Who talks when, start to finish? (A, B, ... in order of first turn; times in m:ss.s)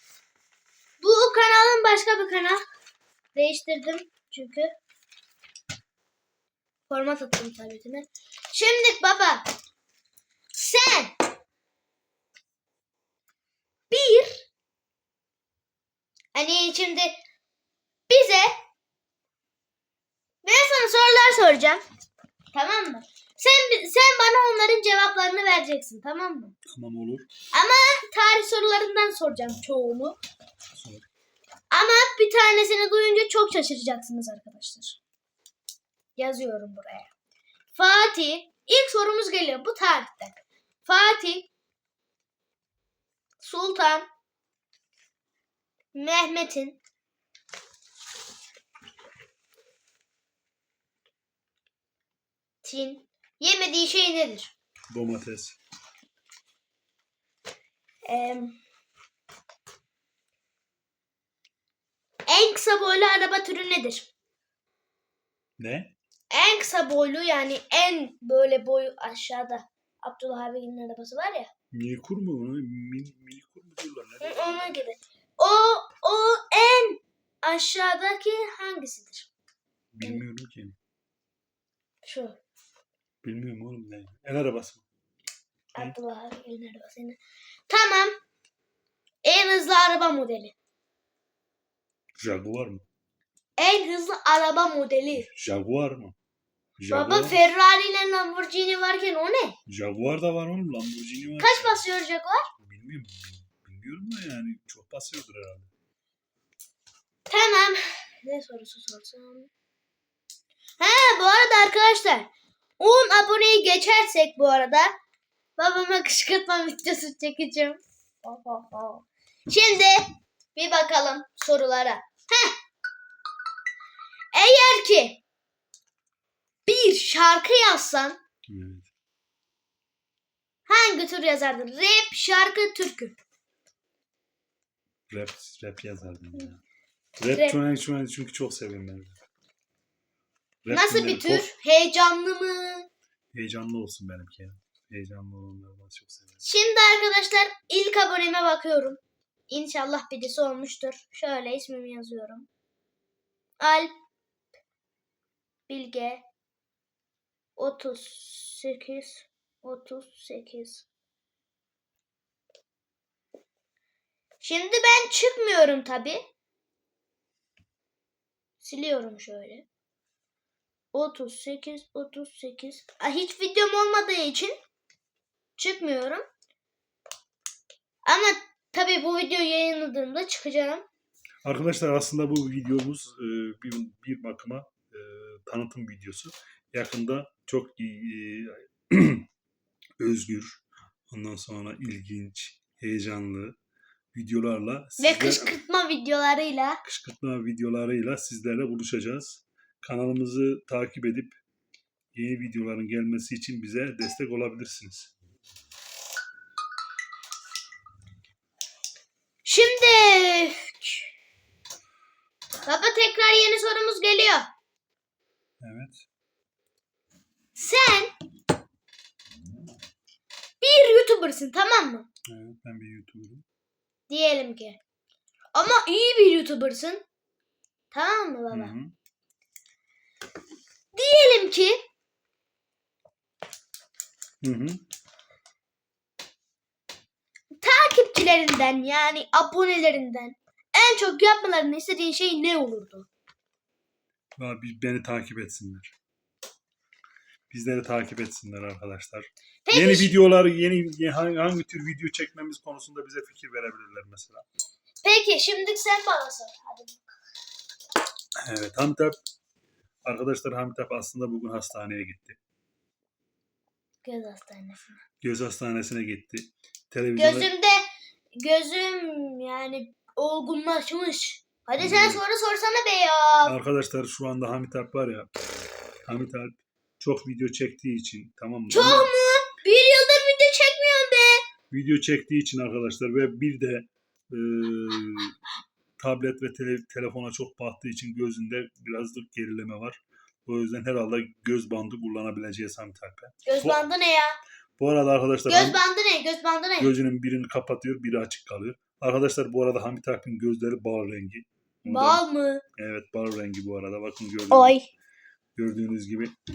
0:01.0-0:02.6 A
0:03.4-0:04.7 A
0:06.9-0:09.5 A
0:10.5-0:11.1 A
0:13.9-0:14.4 A
0:16.3-0:17.2 A
0:18.1-0:18.5 A
0:20.4-0:21.8 A
0:22.5-0:26.6 A
0:26.7-0:27.3 B
0:27.5-0:30.2 A
0:30.7-0:31.0 B
0:31.7-0:35.0 A
0:36.2-0:37.1 A
0:37.7-0:41.5 A
0:43.4-0:44.1 A
0:45.9-0:46.8 A
0:52.6-0:54.5 A
0:54.9-0:55.6 B
0:58.1-0:58.6 A
1:02.3-1:04.1 A
1:05.6-1:05.9 B
1:06.3-1:11.5 A
1:11.7-1:14.8 B
1:14.2-1:19.3 A
1:19.9-1:20.8 B
1:22.0-1:22.4 A
1:23.2-1:24.8 B
1:25.8-1:28.2 A
1:29.2-1:30.5 A
1:32.2-1:32.8 B
1:33.6-1:35.3 A
1:35.2-1:36.2 B
1:36.8-1:37.4 B
1:36.9-1:39.6 A
1:39.7-1:41.8 B
1:41.4-1:42.5 A
1:42.6-1:45.7 B
1:47.3-1:49.5 A
1:50.8-1:54.9 A
1:55.6-2:02.6 A
2:04.3-2:05.2 A
2:06.7-2:08.2 A
2:08.5-2:08.9 B
2:10.7-2:13.2 A
2:15.1-2:16.6 B
2:17.2-2:19.2 B
2:17.3-2:17.6 A
2:20.6-2:21.5 B
2:20.7-2:22.9 A
2:23.3-2:26.4 B
2:26.4-2:32.5 A
2:33.6-2:33.9 A
2:35.7-2:36.2 A
2:37.6-2:40.9 A
2:44.4-2:46.2 A
2:48.6-2:49.7 A
2:50.9-2:54.5 A
2:55.6-2:56.2 A
2:58.0-3:00.8 A
3:01.4-3:09.3 B
3:10.0-3:13.6 B
3:14.1-3:15.5 B
3:15.0-3:16.8 A
3:16.8-3:21.4 B
3:22.1-3:25.1 B
3:29.4-3:31.1 A
3:32.6-3:34.5 A
3:35.6-3:36.0 B
3:37.6-3:38.1 A
3:40.6-3:42.1 A
3:42.3-3:43.4 B
3:44.1-3:44.8 A
3:45.5-3:47.0 A
3:47.9-3:48.8 A
3:48.5-3:48.9 B
3:50.9-3:51.8 A
3:54.4-3:54.8 B
3:57.6-4:03.1 A
4:04.4-4:05.9 B
4:07.5-4:14.5 B
4:09.7-4:10.1 A
4:15.0-4:17.1 A
4:18.4-4:19.2 B
4:20.0-4:22.4 B
4:24.0-4:25.0 A
4:25.2-4:27.5 B
4:27.2-4:27.8 A
4:28.4-4:33.5 A
4:31.8-4:32.2 B
4:33.4-4:35.3 B
4:36.1-4:39.1 B
4:38.7-4:41.4 A
4:41.7-4:45.4 B
4:46.0-4:53.9 B
4:53.4-4:54.4 A
4:54.8-4:55.8 B
4:55.5-4:56.9 A
4:56.8-5:02.2 B
5:01.8-5:02.6 A
5:02.8-5:04.8 B
5:04.5-5:04.9 A
5:05.6-5:06.4 B